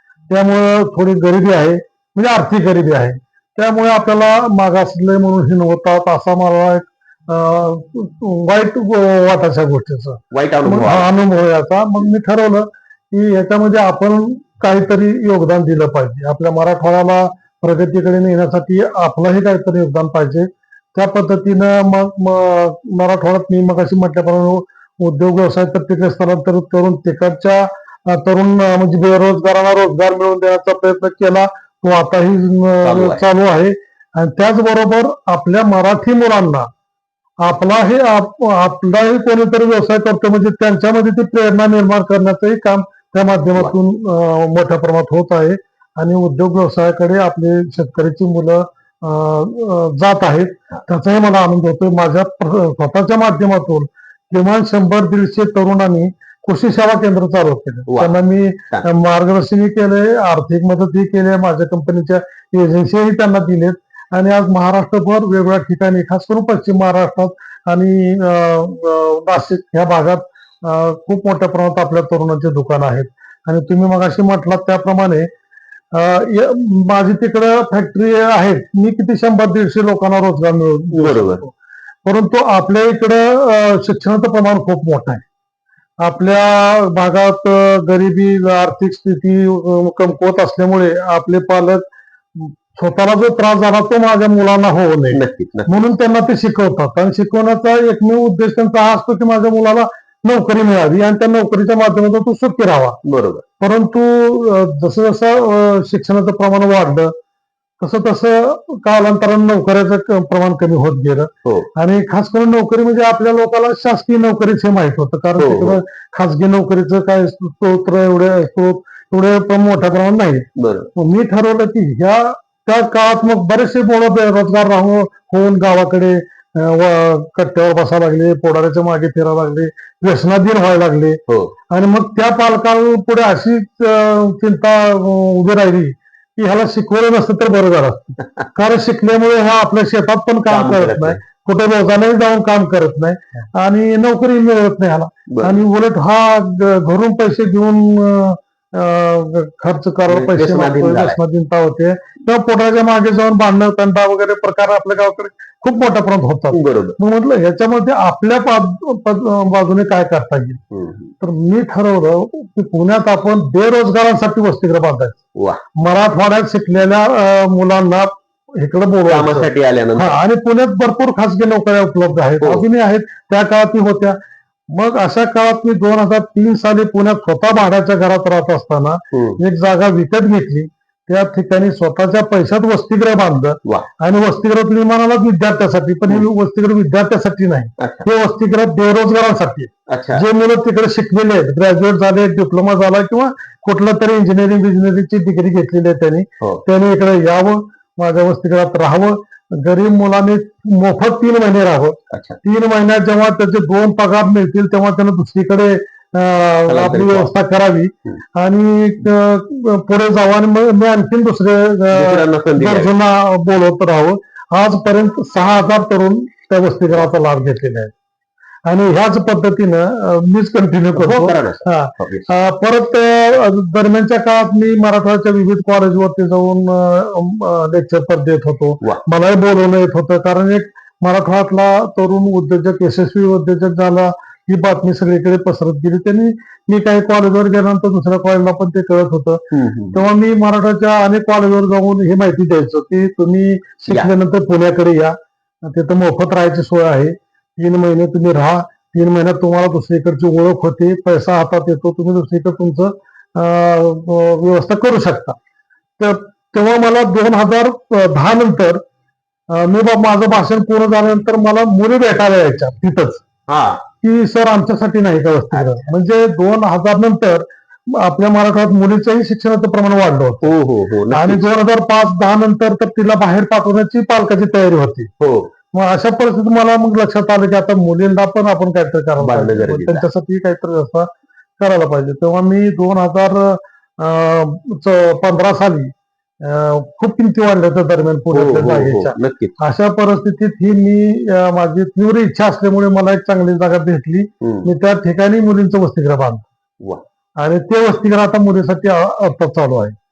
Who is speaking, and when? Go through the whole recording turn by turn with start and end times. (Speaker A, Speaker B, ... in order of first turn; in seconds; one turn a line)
Speaker A: 0.3-36.7
Speaker B: 10.3-11.1
Speaker B: 32.8-33.2
Speaker A: 37.4-75.3
Speaker B: 57.9-58.2
Speaker A: 75.9-81.5
Speaker B: 80.9-81.4
Speaker A: 82.0-85.2
Speaker A: 86.0-103.0
Speaker B: 95.1-95.9
Speaker B: 103.0-103.4
Speaker A: 103.6-107.1
Speaker A: 107.8-160.6
Speaker B: 115.4-115.8
Speaker B: 120.6-120.9
Speaker B: 131.3-131.5
Speaker B: 140.5-141.2
Speaker B: 145.3-145.6
Speaker B: 150.1-151.2
Speaker B: 156.5-157.0
Speaker B: 160.7-161.1
Speaker A: 161.2-165.2
Speaker B: 165.3-165.6
Speaker A: 165.8-174.2
Speaker B: 169.1-170.2
Speaker B: 172.4-172.7
Speaker A: 174.7-217.9
Speaker B: 179.1-179.4
Speaker B: 187.8-188.0
Speaker B: 189.9-190.2
Speaker B: 202.1-202.4
Speaker B: 206.7-207.3
Speaker B: 211.9-212.9
Speaker A: 218.7-255.3
Speaker B: 220.9-222.3
Speaker B: 239.5-240.0
Speaker A: 256.0-258.8
Speaker A: 259.5-263.2
Speaker B: 263.5-263.8
Speaker A: 264.0-270.5
Speaker B: 265.5-265.8
Speaker B: 270.4-271.5
Speaker A: 271.1-275.1
Speaker B: 275.2-275.5
Speaker A: 275.7-296.4
Speaker B: 279.2-280.1
Speaker B: 288.3-289.6
Speaker B: 294.4-294.7
Speaker A: 297.4-299.9